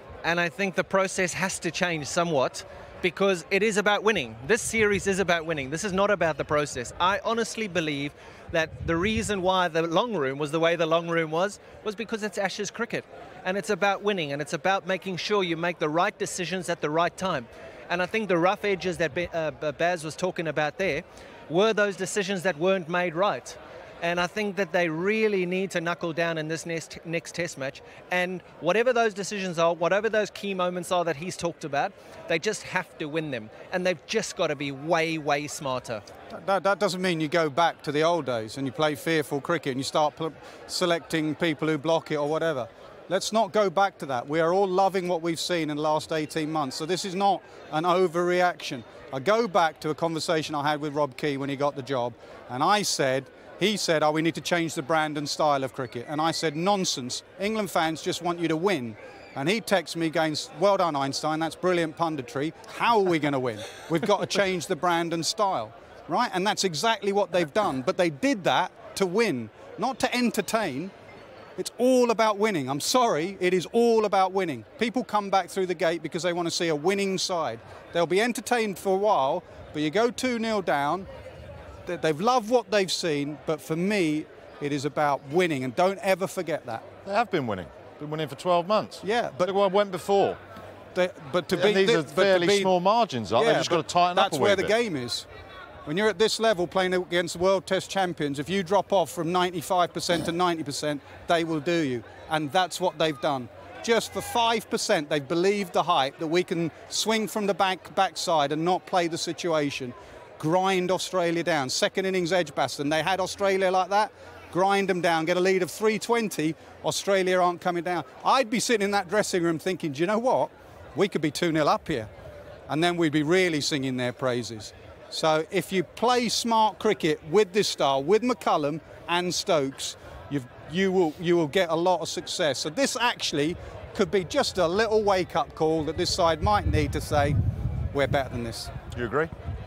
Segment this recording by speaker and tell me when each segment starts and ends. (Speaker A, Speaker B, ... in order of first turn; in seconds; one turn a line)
Speaker A: 0.2-36.0
Speaker B: 36.3-70.9
Speaker B: 71.6-81.1
Speaker B: 81.8-86.8
Speaker C: 87.0-90.4
Speaker B: 89.0-89.5
Speaker B: 91.0-92.7
Speaker C: 91.5-94.7
Speaker B: 93.4-95.3
Speaker B: 95.9-122.1
Speaker B: 122.7-137.4
Speaker B: 137.9-138.7
Speaker C: 138.9-139.3